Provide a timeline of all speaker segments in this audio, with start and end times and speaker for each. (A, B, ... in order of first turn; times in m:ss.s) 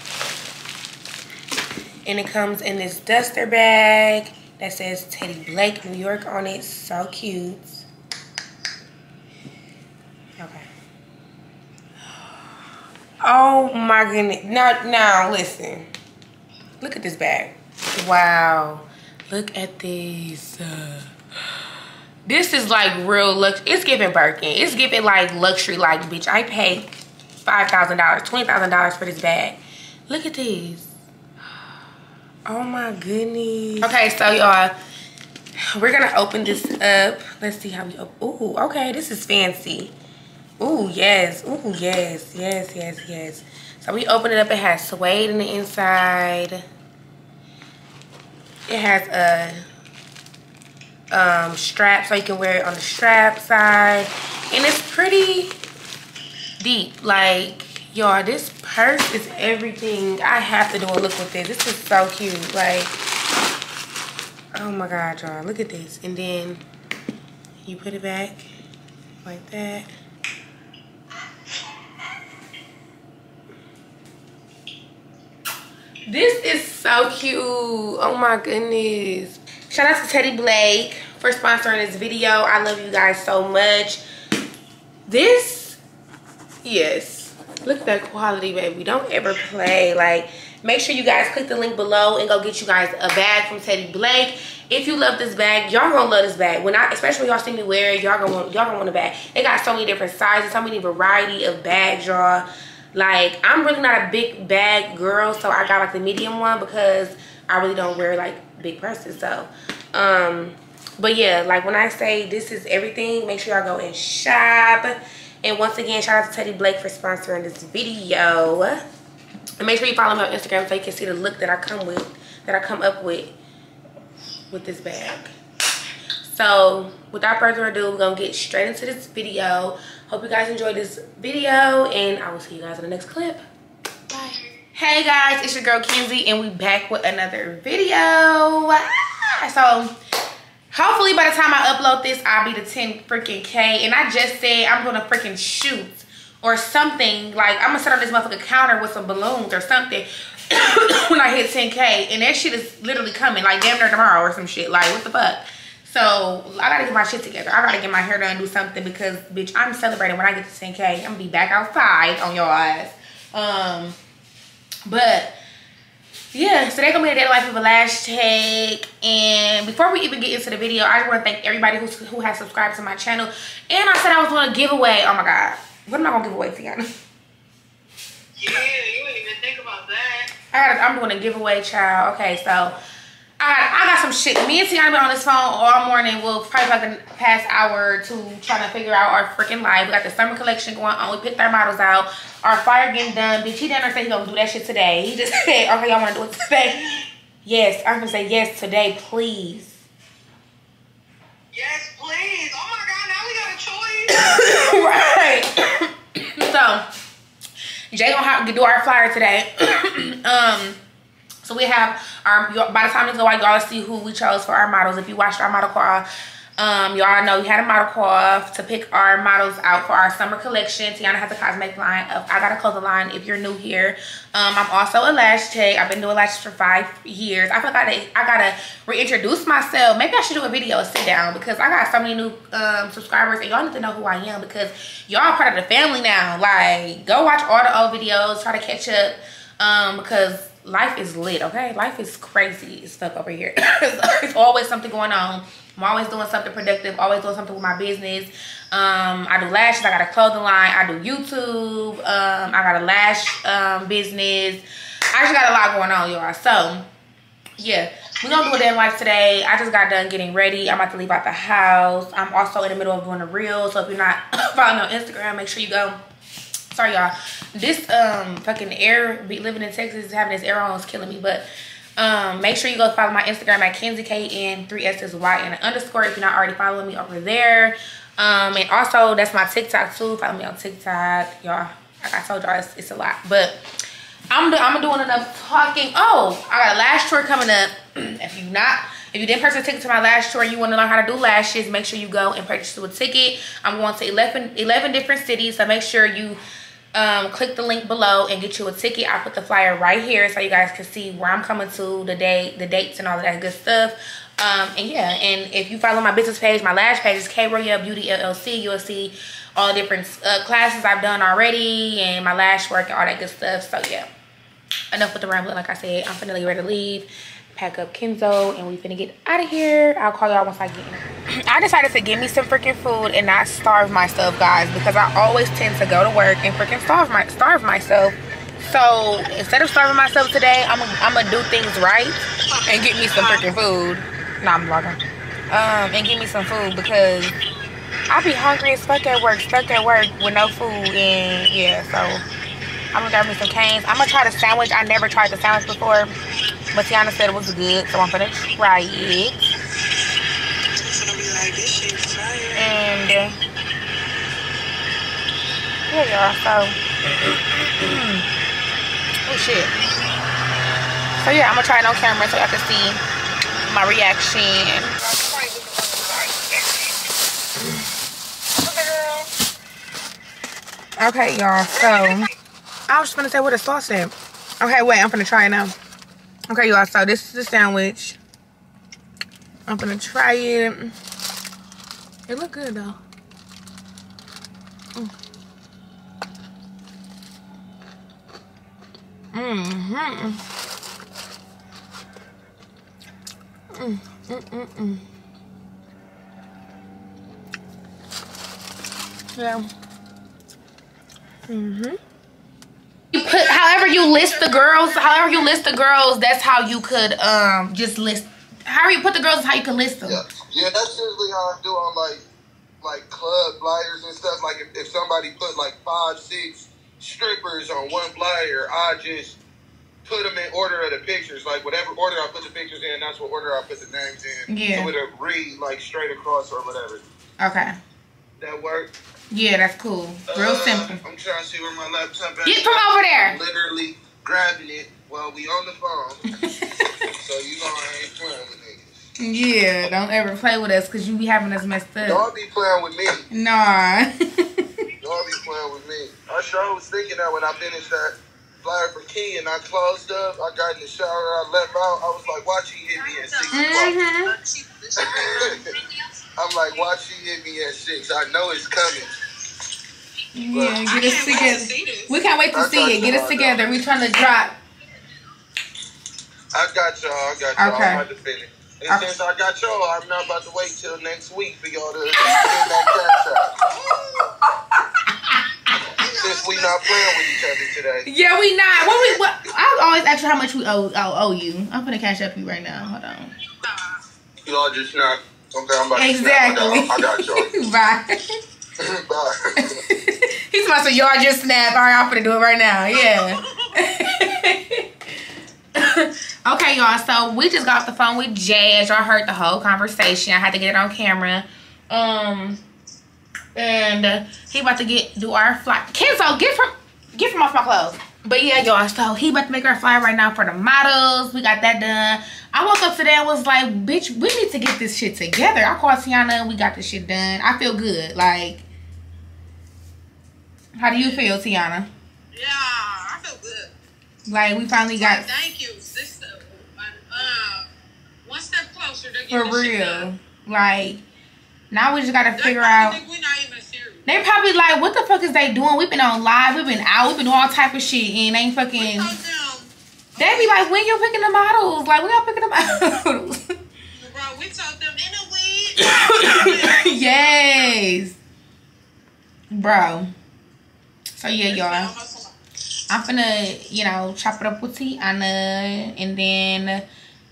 0:02.0-0:07.8 A
0:10.4-0:10.7 A
0:13.2-0:15.9 A
0:16.8-0:21.1 A
0:22.2-0:26.9 A
0:27.4-0:30.9 A
0:32.5-0:34.8 A
0:35.6-0:39.9 A
0:40.6-0:46.6 A
0:48.7-0:49.6 A
0:51.1-0:55.6 A
0:56.6-1:02.9 A
1:04.5-1:06.6 A
1:07.6-1:08.5 A
1:09.2-1:09.9 A
1:16.1-1:24.0 A
1:25.0-1:25.8 A
1:26.6-1:58.8 A
1:59.6-2:03.3 A
2:04.5-2:05.3 A
2:06.2-2:13.4 A
2:14.1-2:20.0 A
2:20.7-2:44.0 A
2:44.8-2:45.4 A
2:46.3-2:56.9 A
2:58.4-3:00.3 B
3:00.5-3:02.8 A
3:03.4-3:19.8 A
3:21.5-3:24.7 B
3:24.1-3:26.9 A
3:27.9-3:30.8 A
3:31.4-4:16.9 A
4:17.6-4:26.0 A
4:26.7-4:43.6 A
4:44.3-4:56.4 A
4:56.9-5:14.1 A
5:14.9-5:37.4 A
5:32.5-5:33.5 B
5:38.1-5:42.2 A
5:42.9-5:46.1 A
5:46.7-5:49.5 A
5:50.8-5:52.8 B
5:52.5-5:53.4 A
5:55.9-5:58.2 A
5:59.2-5:59.7 A
6:01.2-6:03.0 A
6:03.7-6:05.0 A
6:05.0-6:07.0 B
6:08.6-6:09.3 B
6:11.0-6:12.3 A
6:11.8-6:12.2 B
6:12.9-6:15.8 A
6:16.5-6:18.2 A
6:19.7-6:21.0 A
6:22.3-6:23.0 A
6:29.3-6:30.4 A
6:33.7-6:35.0 A
6:39.3-6:39.7 A
6:41.5-6:42.0 A
6:43.1-6:50.2 A
6:43.1-6:45.4 B
6:50.0-6:52.2 C
6:52.8-6:59.4 C
7:00.0-7:07.0 C
7:04.5-7:04.9 A
7:07.4-7:07.8 A
7:08.4-7:08.9 C
7:09.3-7:11.0 A
7:10.3-7:16.2 C
7:12.4-7:13.4 A
7:16.4-7:16.9 A
7:17.2-7:18.9 C
7:19.2-7:22.2 A
7:22.0-7:23.2 C
7:23.3-7:24.6 A
7:25.0-7:33.9 C
7:33.0-7:35.8 B
7:33.5-7:34.3 A
7:35.0-7:35.6 C
7:36.4-7:39.1 C
7:40.3-7:44.6 A
7:40.5-7:40.9 C
7:40.8-7:42.2 B
7:42.5-7:43.6 C
7:46.5-7:53.6 C
7:47.6-7:48.0 A
7:48.9-7:49.1 A
7:52.2-7:52.9 A
7:53.7-7:54.3 B
7:54.7-7:55.8 A
7:56.0-7:56.8 B
7:56.0-7:58.1 C
7:58.0-8:03.3 A
7:58.9-7:59.1 C
8:04.4-8:07.5 C
8:05.9-8:08.2 A
8:08.8-8:09.8 C
8:09.6-8:14.8 A
8:13.0-8:13.7 B
8:15.7-8:22.6 A
8:23.5-8:38.6 A
8:40.8-8:41.9 A
8:42.3-8:43.7 B
8:44.3-8:45.3 A
8:45.0-8:47.7 B
8:48.2-8:50.1 B
8:49.3-8:51.0 A
8:51.7-8:53.0 A
8:52.4-8:54.0 B
8:54.0-8:59.1 A
8:58.8-9:00.6 B
9:00.2-9:03.5 A
9:03.9-9:07.7 B
9:05.8-9:08.2 A
9:09.5-9:10.1 A
9:11.2-9:11.9 A
9:11.5-9:12.3 B
9:12.9-9:16.8 A